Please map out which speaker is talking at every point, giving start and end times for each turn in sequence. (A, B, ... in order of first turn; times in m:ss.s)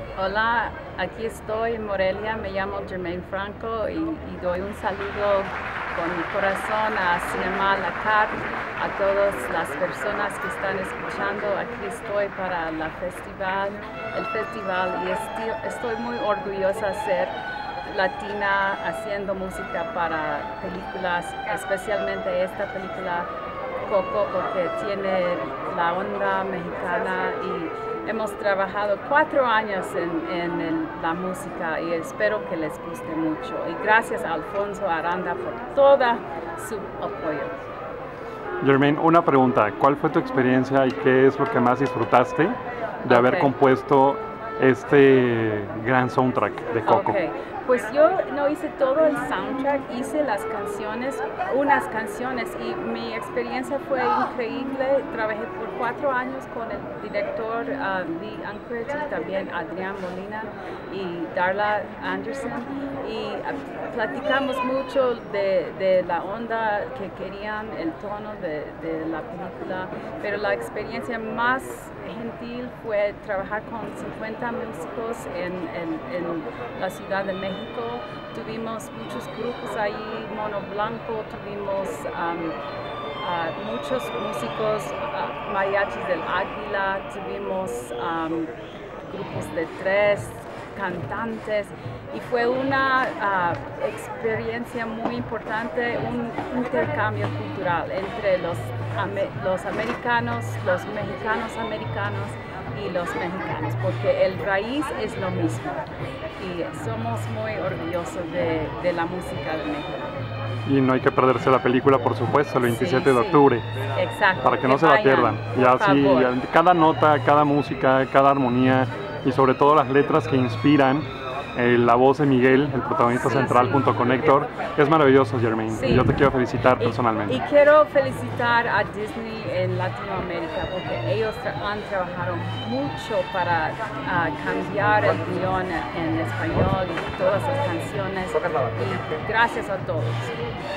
0:00.2-0:23.3 A
0:23.8-0:37.6 A
0:38.6-0:47.1 B
0:43.1-0:43.5 A
0:46.8-1:22.6 A
1:23.2-1:28.5 A
1:29.0-1:45.9 A
1:46.4-1:50.1 A
1:50.6-1:53.6 B
1:52.6-1:56.3 A
1:54.4-2:07.4 B
2:03.1-2:03.8 A
2:05.7-2:06.1 A
2:06.8-2:20.5 A